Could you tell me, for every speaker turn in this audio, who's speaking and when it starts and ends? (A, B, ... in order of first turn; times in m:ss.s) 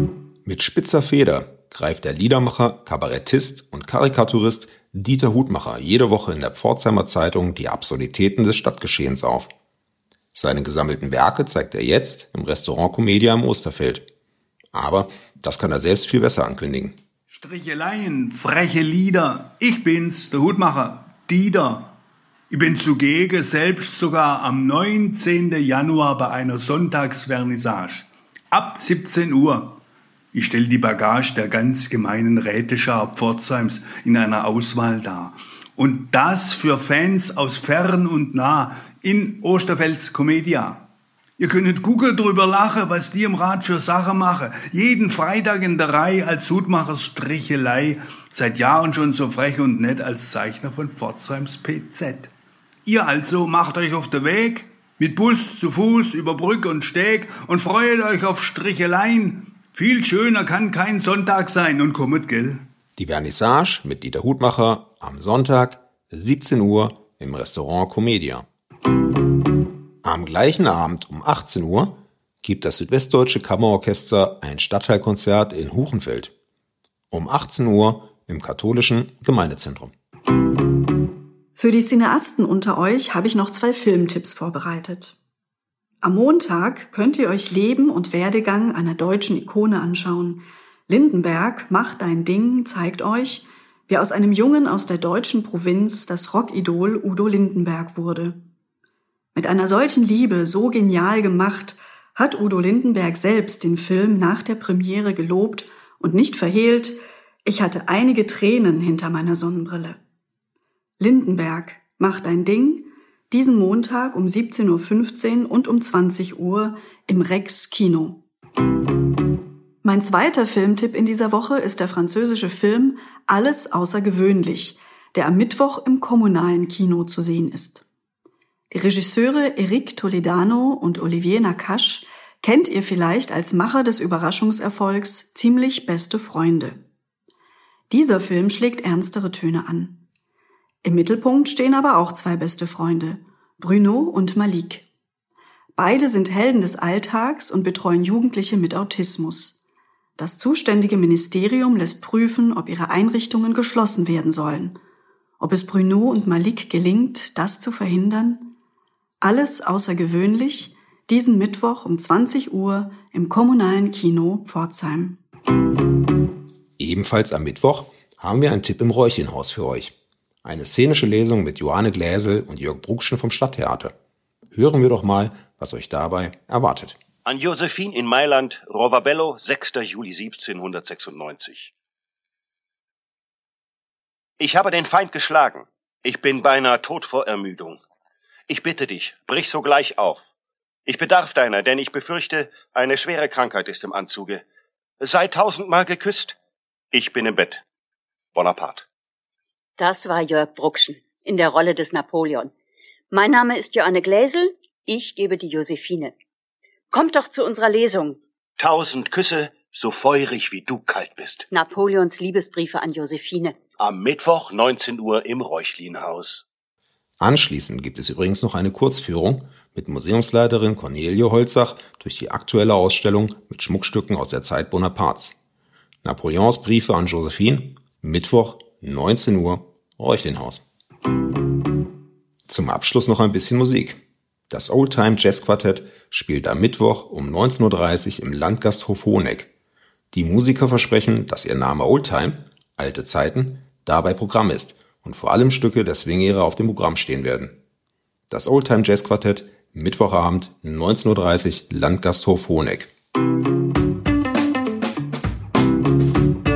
0:00.4-0:09.5 A
0:10.4-0:14.1 A
0:14.7-0:17.0 A
0:17.3-0:22.0 B
0:22.5-0:29.8 B
0:30.3-0:40.9 B
0:41.4-0:52.3 B
0:52.8-1:02.6 B
1:03.0-1:08.5 A
1:10.0-1:16.3 A
1:17.1-1:19.9 A
1:21.6-1:25.2 C
1:26.0-1:38.4 C
1:39.4-1:50.0 C
1:51.0-1:58.2 C
1:59.8-2:07.8 C
2:08.7-2:16.8 C
2:17.9-2:20.0 C
2:20.8-2:24.9 C
2:25.8-2:29.6 C
2:30.2-2:34.8 C
2:35.4-2:38.5 C
2:39.2-2:45.2 C
2:46.8-2:49.9 A
2:50.4-2:53.9 A
2:54.5-2:57.0 A
2:57.3-3:01.7 D
3:04.4-3:07.8 D
3:08.5-3:10.2 D
3:10.9-3:14.4 D
3:15.0-3:16.3 D
3:16.9-3:17.6 D
3:18.4-3:18.8 D
3:19.8-3:22.5 E
3:23.1-3:26.1 E
3:26.9-3:28.2 E
3:28.6-3:31.4 D
3:31.5-3:33.6 E
3:33.8-3:36.4 D
3:37.2-3:45.4 A
3:46.0-3:50.6 A
3:52.5-3:59.5 A
4:00.1-4:07.6 A
4:08.3-4:12.9 A